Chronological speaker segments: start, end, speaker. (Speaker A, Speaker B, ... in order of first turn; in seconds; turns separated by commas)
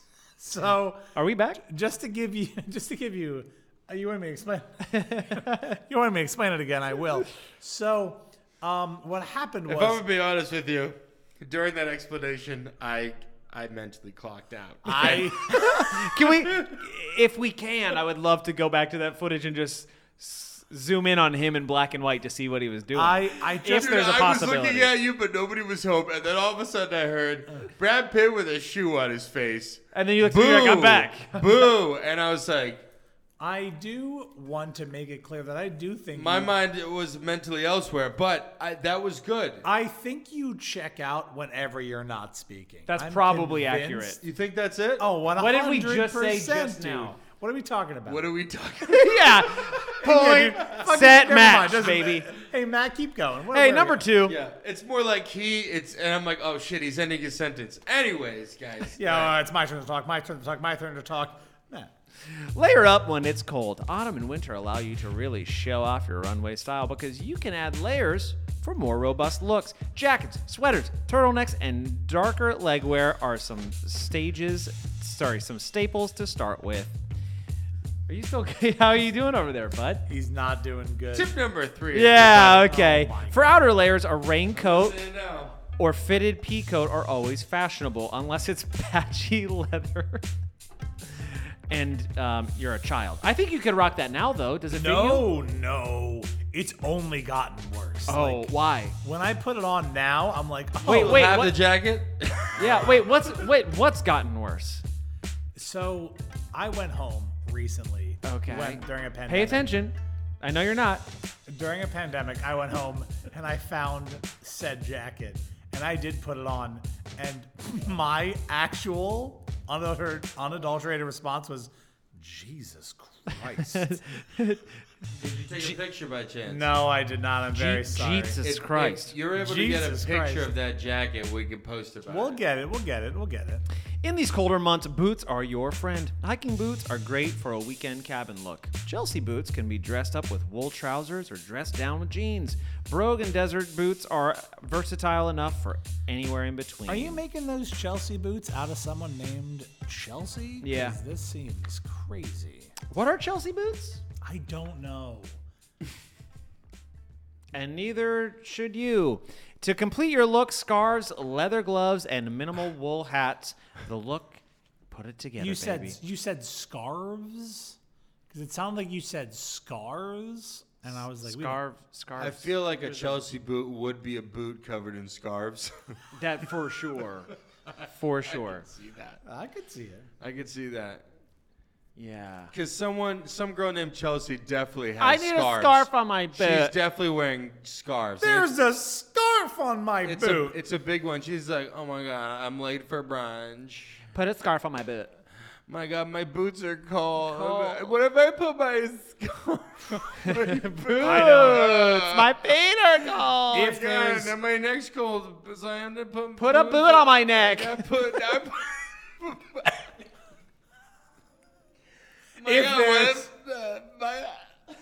Speaker A: 0.4-1.1, Speaker B: 1.1-1.6, Speaker A: 1.6-10.0, Speaker B: 4.9-5.8, Speaker C: 9.7-16.8, Speaker A: 14.8-15.8, Speaker B: 14.9-24.9, Speaker A: 22.9-24.1, Speaker C: 23.6-32.8, Speaker B: 29.9-31.5, Speaker A: 33.4-36.5, Speaker C: 36.1-39.6, Speaker A: 39.6-44.2, Speaker B: 42.9-44.2, Speaker C: 44.2-45.1, Speaker A: 45.0-48.3, Speaker B: 45.4-47.1, Speaker C: 48.0-49.9, Speaker B: 48.9-52.3, Speaker A: 49.9-54.0, Speaker B: 53.5-54.4, Speaker C: 54.2-59.3, Speaker A: 58.9-61.9, Speaker B: 62.3-77.0, Speaker B: 78.1-80.0, Speaker A: 80.1-81.3, Speaker C: 81.1-82.6, Speaker B: 81.9-85.0, Speaker A: 82.1-83.5, Speaker C: 84.5-85.6, Speaker B: 85.8-90.2, Speaker B: 91.1-95.3, Speaker A: 94.7-101.4, Speaker B: 98.1-99.0, Speaker C: 100.8-103.1, Speaker B: 100.8-101.6, Speaker A: 102.6-103.0, Speaker B: 102.6-104.8, Speaker A: 105.5-109.8, Speaker B: 108.2-111.1, Speaker A: 111.5-124.0, Speaker B: 123.3-124.8, Speaker C: 125.2-126.7, Speaker A: 126.4-128.4, Speaker B: 127.5-129.1, Speaker C: 128.4-132.4, Speaker A: 129.3-130.5, Speaker A: 132.1-133.6, Speaker B: 134.0-147.2, Speaker A: 146.9-152.7, Speaker B: 150.6-151.0, Speaker B: 152.9-154.0, Speaker A: 154.2-155.4, Speaker B: 157.5-166.0, Speaker A: 165.4-167.8, Speaker A: 168.3-171.6, Speaker B: 171.2-173.2, Speaker C: 172.2-176.0, Speaker B: 176.1-177.3, Speaker C: 177.8-179.2, Speaker B: 177.9-178.6, Speaker A: 179.2-180.1, Speaker C: 180.2-181.0, Speaker B: 181.9-182.5, Speaker C: 182.5-188.5, Speaker B: 185.0-186.7, Speaker A: 188.2-190.6, Speaker C: 190.0-194.0, Speaker B: 194.1-195.1, Speaker C: 195.7-202.4, Speaker B: 197.2-197.9, Speaker B: 200.2-203.7, Speaker A: 201.0-201.6, Speaker C: 203.5-209.9, Speaker A: 203.5-204.4, Speaker B: 206.4-207.9, Speaker C: 212.4-214.5, Speaker A: 212.4-213.3